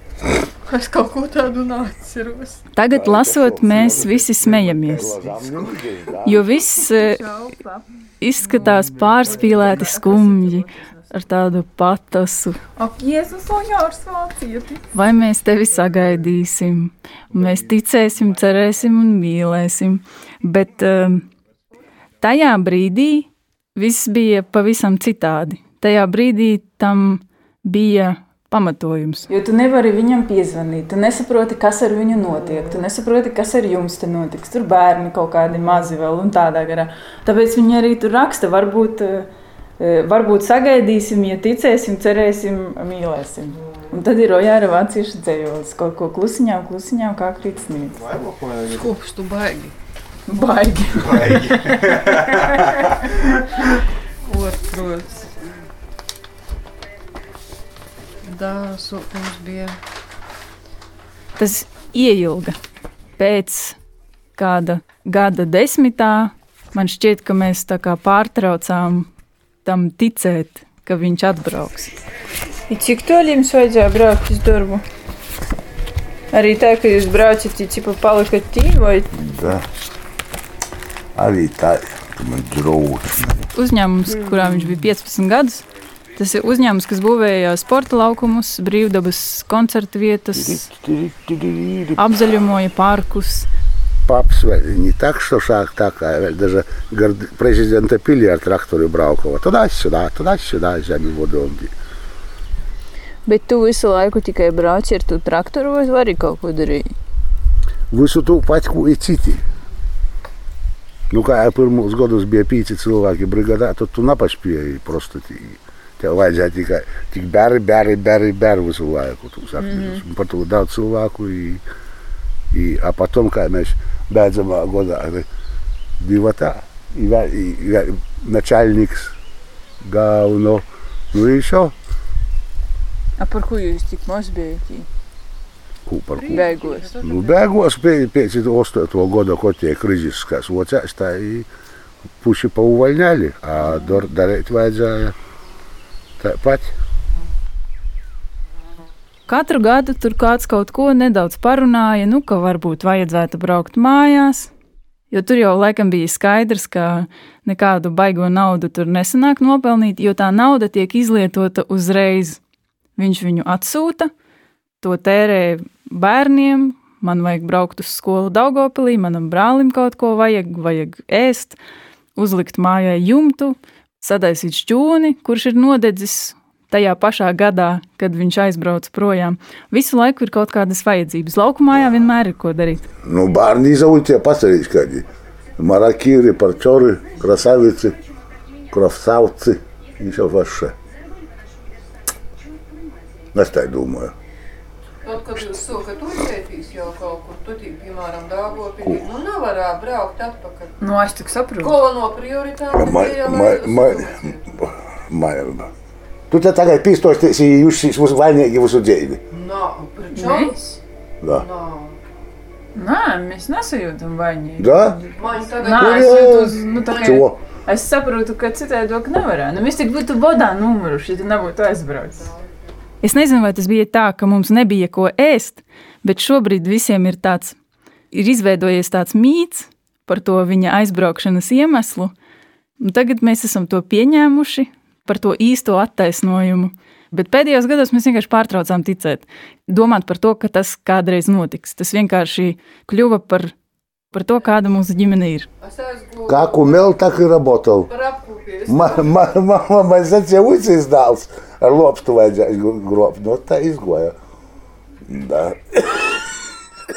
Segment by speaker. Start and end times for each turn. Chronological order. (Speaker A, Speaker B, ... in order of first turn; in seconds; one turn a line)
Speaker A: 0.7-2.6
Speaker B: 2.7-5.2
Speaker C: 2.9-6.6
Speaker B: 6.2-21.3
Speaker B: 22.2-48.2
Speaker A: 48.5-49.7
Speaker B: 50.3-52.4
Speaker A: 54.2-55.3
Speaker A: 58.2-59.8
Speaker B: 61.4-62.5
Speaker B: 63.2-63.8
Speaker B: 64.3-69.1
Speaker B: 69.6-71.9
Speaker B: 72.7-74.8
Speaker B: 76.3-79.1
Speaker C: 79.1-79.6
Speaker C: 81.1-83.5
Speaker B: 83.5-85.6
Speaker B: 86.2-90.6
Speaker C: 90.3-92.0
Speaker B: 92.0-93.5
Speaker C: 94.1-101.7
Speaker B: 103.2-106.9
Speaker C: 107.9-109.4
Speaker C: 111.1-121.6
Speaker B: 119.6-120.0
Speaker C: 122.5-125.2
Speaker C: 126.0-129.2
Speaker C: 129.8-131.7
Speaker B: 133.2-134.9
Speaker C: 135.9-136.4
Speaker A: 136.2-137.5
Speaker B: 136.3-136.9
Speaker C: 137.0-141.5
Speaker C: 142.2-145.2
Speaker C: 146.2-146.7
Speaker B: 149.3-154.5
Speaker B: 155.1-162.4
Speaker B: 163.0-164.1
Speaker B: 164.8-171.6
Speaker B: 172.2-182.8
Speaker C: 183.0-185.0
Speaker C: 185.6-188.0
Speaker C: 188.7-190.7
Speaker C: 193.3-194.1
Speaker A: 195.0-200.8
Speaker B: 200.8-201.8
Speaker A: 201.6-204.6
Speaker C: 202.7-205.7
Speaker C: 206.3-209.2
Speaker A: 209.3-210.8
Speaker B: 210.1-210.6
Speaker A: 211.3-212.0
Speaker B: 212.7-215.0
Speaker C: 214.6-215.0
Speaker A: 215.1-217.2
Speaker B: 215.5-222.3
Speaker C: 215.6-217.4
Speaker B: 223.0-227.6
Speaker B: 228.1-232.1
Speaker B: 232.8-243.5
Speaker B: 244.1-245.5
Speaker A: 245.6-246.8
Speaker C: 246.3-247.9
Speaker A: 247.9-249.1
Speaker C: 248.7-254.1
Speaker C: 255.1-256.1